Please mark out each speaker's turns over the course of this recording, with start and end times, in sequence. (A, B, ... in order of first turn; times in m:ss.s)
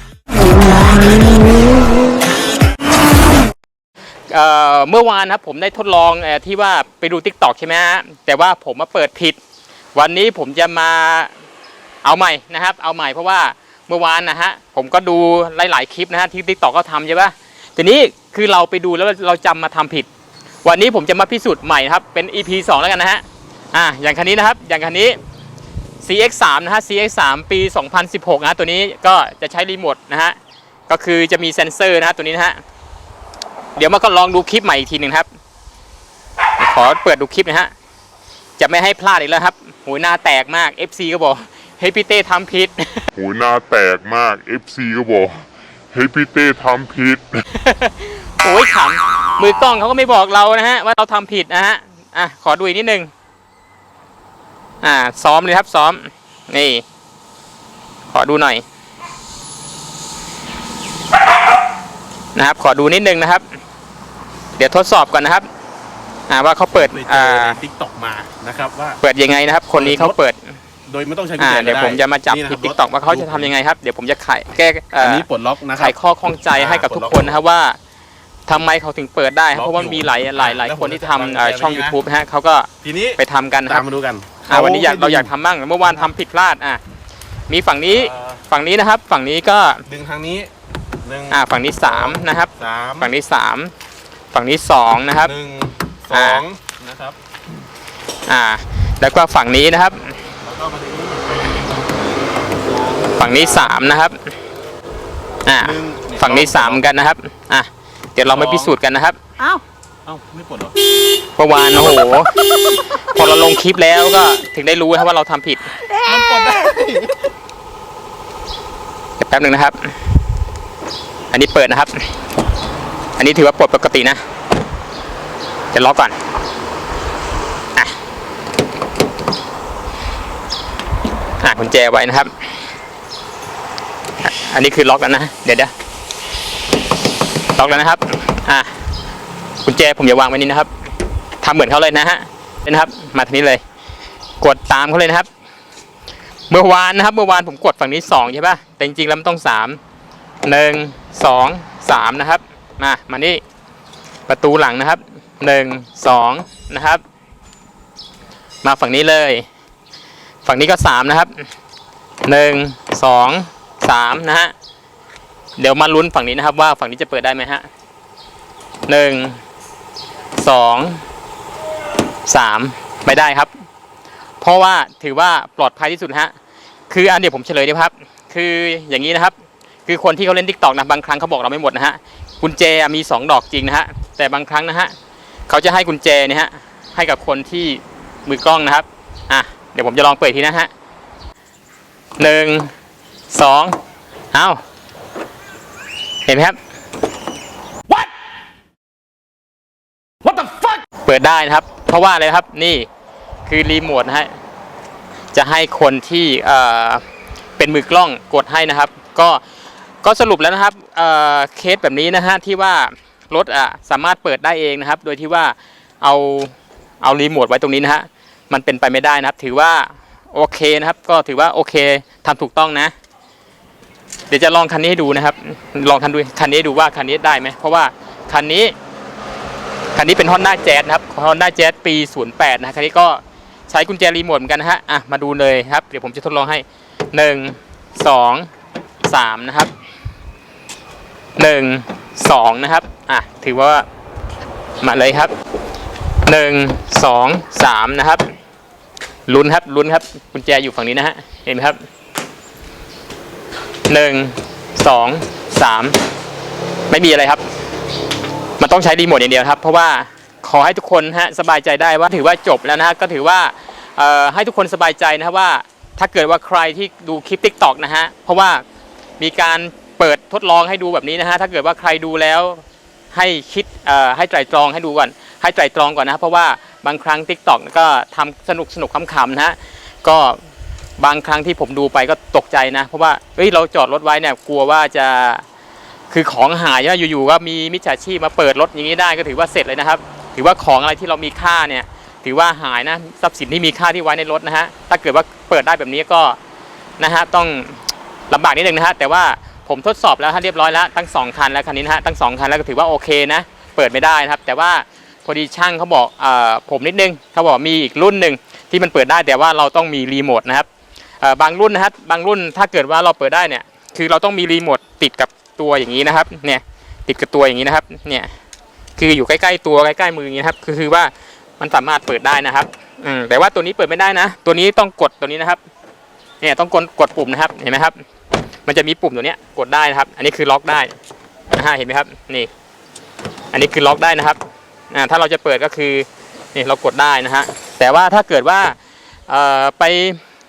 0:04.3-0:09.4 A
0:10.0-0:11.3 A
0:12.0-0:20.1 A
0:20.6-0:25.2 A
0:26.0-0:30.4 A
0:30.9-0:32.6 A
0:33.8-0:35.3 A
0:36.6-0:37.7 A
0:38.6-0:43.1 A
0:43.2-0:47.5 B
0:47.5-0:53.1 A
0:54.8-0:56.8 A
0:58.1-0:58.6 A
1:02.4-1:03.4 A
1:04.6-1:05.5 A
1:06.3-1:07.6 A
1:06.8-1:09.0 C
1:09.0-1:10.6 A
1:09.7-1:10.2 C
1:10.9-1:13.5 C
1:11.4-1:15.2 A
1:15.0-1:16.0 C
1:15.8-1:17.8 A
1:16.5-1:17.4 C
1:18.5-1:23.9 A
1:19.5-1:22.0 C
1:22.8-1:25.3 C
1:24.5-1:26.8 A
1:27.5-1:29.8 A
1:27.9-1:28.4 C
1:29.9-1:30.5 C
1:31.0-1:33.1 C
1:31.3-1:33.7 A
1:34.3-1:35.3 A
1:35.2-1:37.2 C
1:36.1-1:36.4 A
1:38.3-1:40.2 A
1:40.4-1:41.5 C
1:43.1-1:44.2 A
1:45.5-1:49.2 A
1:45.6-1:46.8 C
1:48.2-1:48.8 C
1:49.4-1:50.8 C
1:51.4-1:55.8 A
1:55.9-1:57.2 C
1:59.2-1:59.9 A
2:01.3-2:02.1 A
2:03.2-2:04.2 A
2:05.7-2:06.2 A
2:11.4-2:12.3 A
2:14.2-2:15.7 A
2:17.6-2:18.7 A
2:19.6-2:20.7 A
2:21.4-2:23.6 A
2:24.4-2:25.3 A
2:26.5-2:29.8 A
2:30.4-2:33.4 A
2:34.3-2:37.0 A
2:38.6-2:39.4 A
2:40.4-2:41.5 A
2:42.2-2:44.5 A
2:45.6-2:47.7 A
2:48.9-2:49.4 A
2:50.4-2:51.0 A
2:52.3-2:53.5 A
2:54.4-2:56.4 A
2:56.9-2:59.4 A
2:59.9-3:04.9 A
3:05.5-3:10.7 A
3:12.2-3:12.7 A
3:13.3-3:13.8 A
3:14.3-3:14.6 A
3:16.3-3:16.6 A
3:21.0-3:22.9 A
3:23.5-3:24.3 A
3:25.3-3:27.0 A
3:27.6-3:29.4 A
3:30.0-3:42.9 A
3:44.3-3:48.8 A
3:50.0-3:58.5 A
3:59.0-3:59.7 A
4:01.4-4:03.9 A
4:04.8-4:05.3 A
4:06.2-4:08.3 A
4:09.3-4:11.8 A
4:13.9-4:16.0 A
4:16.9-4:17.5 A
4:18.6-4:28.6 A
4:29.2-4:40.4 A
4:41.0-4:45.4 A
4:46.1-4:56.4 A
4:57.0-5:10.7 A
5:11.2-5:18.3 A
5:19.0-5:25.6 A
5:26.4-5:28.0 A
5:28.7-5:30.9 A
5:31.5-5:32.5 A
5:33.5-5:34.4 A
5:34.9-5:38.8 A
5:39.3-5:40.2 A